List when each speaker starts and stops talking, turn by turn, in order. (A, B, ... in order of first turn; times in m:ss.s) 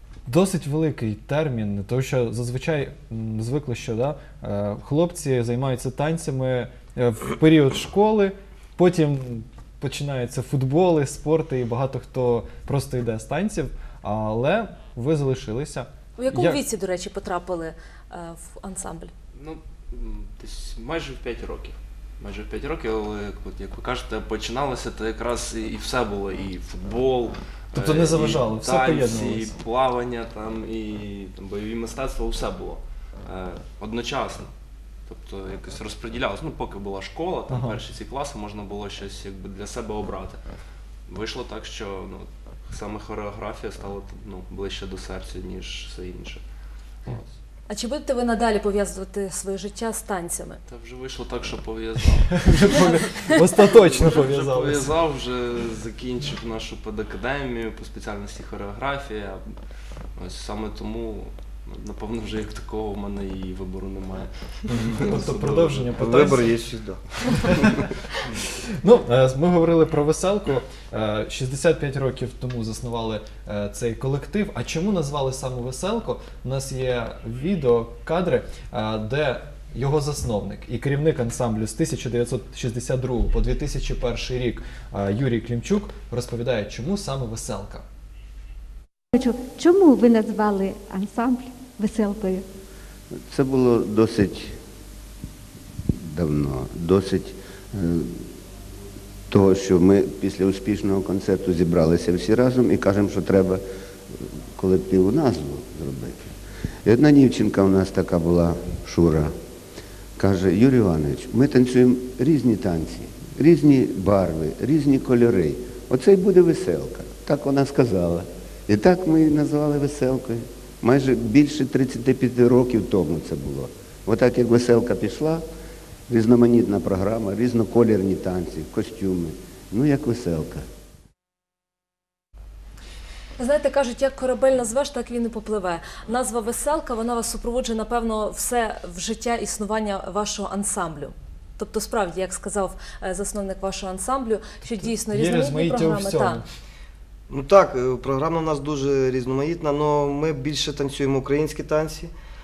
0:00.3-0:16.6 A
0:16.2-0:19.1 B
0:19.3-0:34.5 C
0:27.8-0:29.5 A
0:35.1-0:40.4 C
0:37.5-0:37.8 A
0:41.1-0:46.4 C
0:47.0-0:47.3 C
0:47.7-0:50.6 B
0:50.6-0:59.4 C
0:52.5-0:54.9 A
1:00.2-1:06.1 C
1:04.7-1:06.5 A
1:06.0-1:07.9 D
1:07.2-1:07.8 A
1:08.5-1:27.8 A
1:29.1-1:32.4 E
1:33.3-1:34.6 F
1:35.9-1:38.2 F
1:39.3-1:43.6 F
1:44.5-1:49.3 F
1:50.2-2:05.4 F
2:06.1-2:10.6 F
2:13.4-2:26.4 B
2:24.7-2:26.4 A
2:27.3-2:32.1 D